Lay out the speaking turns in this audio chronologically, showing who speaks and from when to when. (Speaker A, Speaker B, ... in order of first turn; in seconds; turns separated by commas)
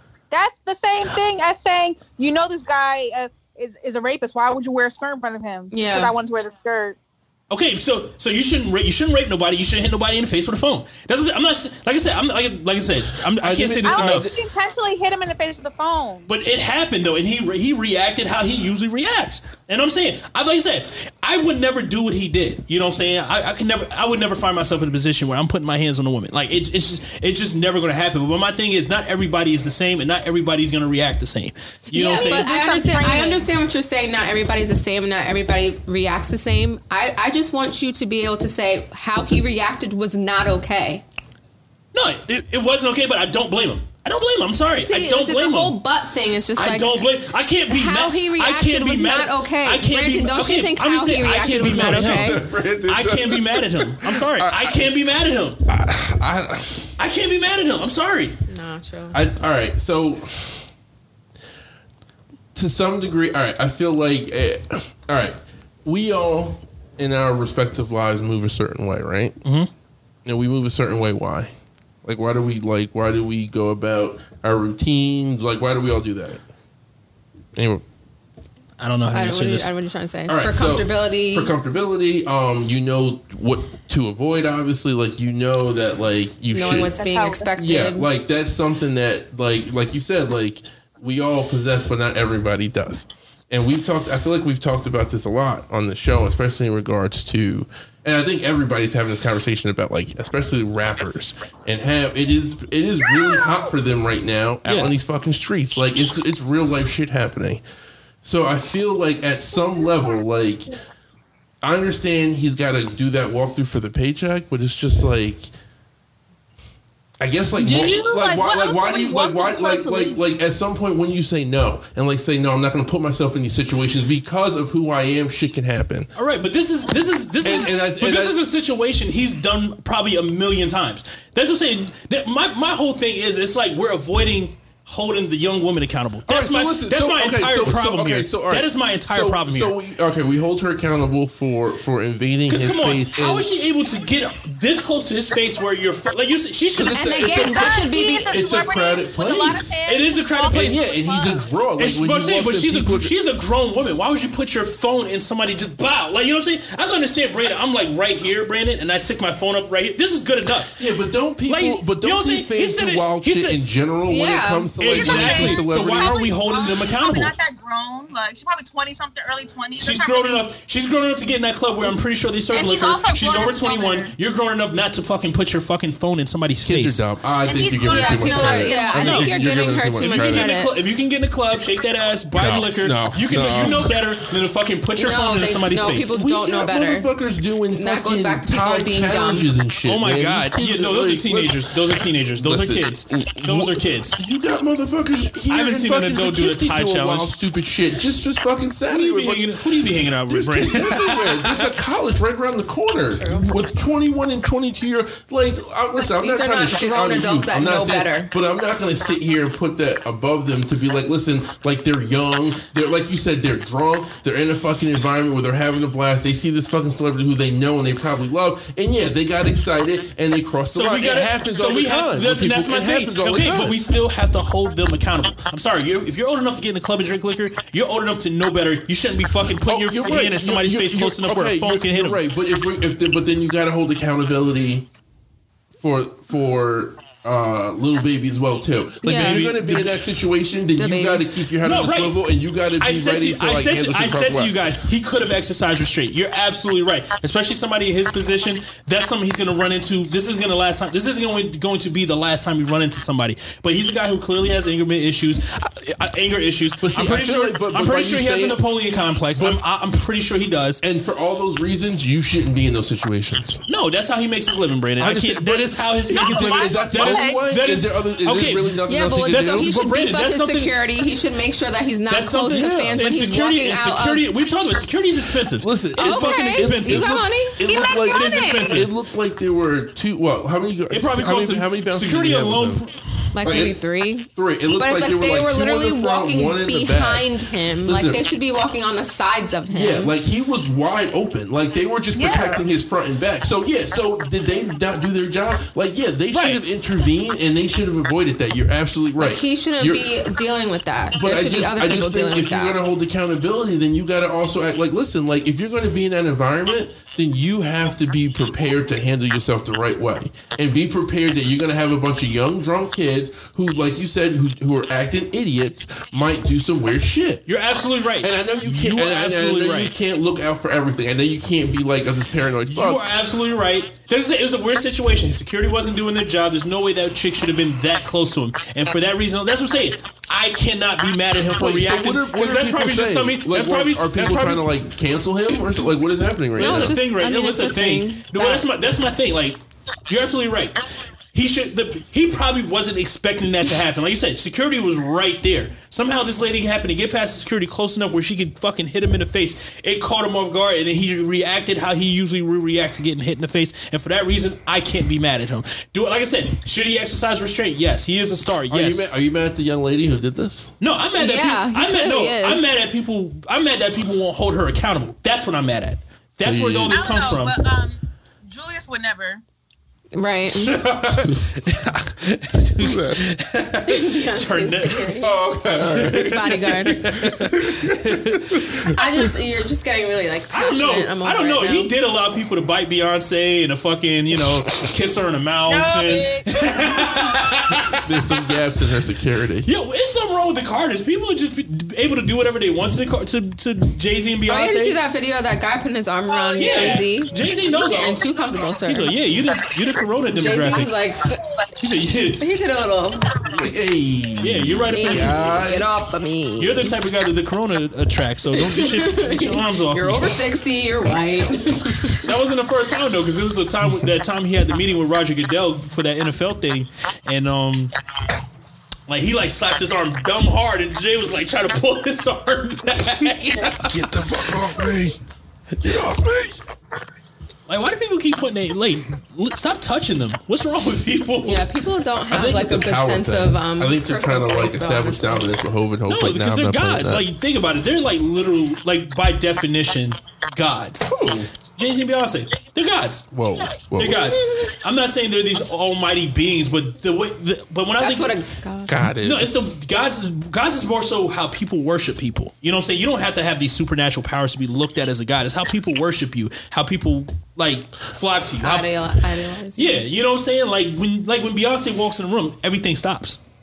Speaker A: 0.3-7.0, Speaker B: 5.7-6.1, Speaker C: 7.5-14.3, Speaker D: 13.4-14.3, Speaker A: 13.9-16.3, Speaker C: 16.3-32.5, Speaker B: 31.9-41.0, Speaker A: 32.0-33.5, Speaker C: 41.9-45.8, Speaker B: 44.8-47.0, Speaker C: 46.6-55.6, Speaker B: 47.7-52.4, Speaker D: 51.6-54.9, Speaker D: 55.7-56.9, Speaker C: 57.0-58.4, Speaker B: 58.5-59.2, Speaker D: 59.1-60.7, Speaker D: 62.5-69.4, Speaker C: 69.4-69.7, Speaker D: 70.2-71.5, Speaker D: 72.0-76.4, Speaker D: 77.5-77.8, Speaker C: 78.8-79.7, Speaker B: 79.1-81.5, Speaker D: 80.3-87.0, Speaker B: 86.5-88.1, Speaker A: 87.0-87.5, Speaker D: 87.6-107.6, Speaker C: 104.7-105.0, Speaker D: 108.2-110.7, Speaker D: 111.6-115.5, Speaker D: 117.2-126.1, Speaker A: 117.6-120.2, Speaker C: 126.2-139.8, Speaker D: 127.4-128.4, Speaker D: 136.3-143.5, Speaker C: 142.5-147.3, Speaker D: 146.7-149.8, Speaker B: 146.9-148.3, Speaker A: 147.3-151.4, Speaker C: 149.9-150.9, Speaker D: 150.5-153.1, Speaker C: 151.8-160.9, Speaker D: 160.8-166.3, Speaker C: 161.5-163.6, Speaker B: 164.1-164.8, Speaker C: 164.8-167.3, Speaker A: 164.8-170.5, Speaker C: 169.8-177.0, Speaker A: 172.5-174.1, Speaker D: 176.6-180.5, Speaker A: 177.5-179.2, Speaker B: 177.9-180.7, Speaker C: 179.0-186.1, Speaker D: 182.3-183.9, Speaker B: 185.0-187.1, Speaker D: 186.1-191.8, Speaker B: 187.7-189.5, Speaker C: 189.9-194.2, Speaker D: 192.4-199.6, Speaker C: 195.5-197.3, Speaker C: 198.9-201.7, Speaker D: 200.3-223.8, Speaker B: 203.1-203.5, Speaker B: 206.2-208.3, Speaker C: 220.7-232.2, Speaker D: 229.6-234.9, Speaker D: 235.8-244.6, Speaker B: 239.0-239.5, Speaker C: 239.1-239.9, Speaker B: 240.8-241.3, Speaker C: 241.6-242.2, Speaker C: 242.8-260.8, Speaker D: 256.8-258.6, Speaker D: 260.8-263.6, Speaker C: 263.7-270.7, Speaker D: 265.0-269.8, Speaker A: 266.1-267.4, Speaker B: 268.9-274.3, Speaker C: 272.1-278.9, Speaker D: 272.5-273.1, Speaker D: 275.6-282.8, Speaker B: 276.0-277.6, Speaker A: 277.6-278.8, Speaker C: 280.9-283.0, Speaker B: 283.3-290.1, Speaker D: 283.4-283.8, Speaker D: 284.3-287.3, Speaker D: 287.8-288.2, Speaker D: 289.7-300.1, Speaker A: 292.1-292.6, Speaker C: 296.3-296.6, Speaker B: 299.2-302.8, Speaker D: 301.1-317.4, Speaker C: 317.5-319.9, Speaker D: 318.2-323.0, Speaker C: 322.7-334.7, Speaker D: 331.5-337.0, Speaker B: 336.6-338.6, Speaker C: 336.6-340.8, Speaker C: 341.3-359.0, Speaker D: 358.7-360.7, Speaker C: 360.8-367.6, Speaker B: 361.2-362.8, Speaker D: 366.4-367.4, Speaker A: 366.9-369.4, Speaker B: 370.1-370.8, Speaker C: 370.5-378.9, Speaker D: 372.8-373.3, Speaker B: 373.9-375.3, Speaker D: 375.2-378.9, Speaker B: 376.2-377.2, Speaker B: 378.9-381.9, Speaker C: 380.5-388.1, Speaker A: 385.7-387.5, Speaker D: 388.0-389.7, Speaker C: 389.7-395.0, Speaker B: 394.5-399.1, Speaker A: 396.3-397.1, Speaker C: 396.6-398.2, Speaker C: 398.9-400.9, Speaker B: 400.3-401.4, Speaker C: 401.8-402.4, Speaker B: 402.4-403.3, Speaker D: 403.4-405.9, Speaker C: 404.4-405.5, Speaker B: 404.9-407.0, Speaker C: 406.6-410.4, Speaker B: 408.6-412.3, Speaker C: 412.2-417.9, Speaker C: 419.1-423.9, Speaker D: 423.8-425.2, Speaker D: 425.8-426.6, Speaker C: 427.7-431.7, Speaker B: 431.4-435.5, Speaker D: 432.3-437.3, Speaker C: 436.1-441.2, Speaker D: 441.1-441.5, Speaker C: 441.8-443.3, Speaker D: 443.3-444.4, Speaker C: 443.9-448.4, Speaker B: 448.0-449.1, Speaker D: 448.9-449.8, Speaker C: 449.2-458.9, Speaker B: 458.6-460.0, Speaker C: 459.8-463.4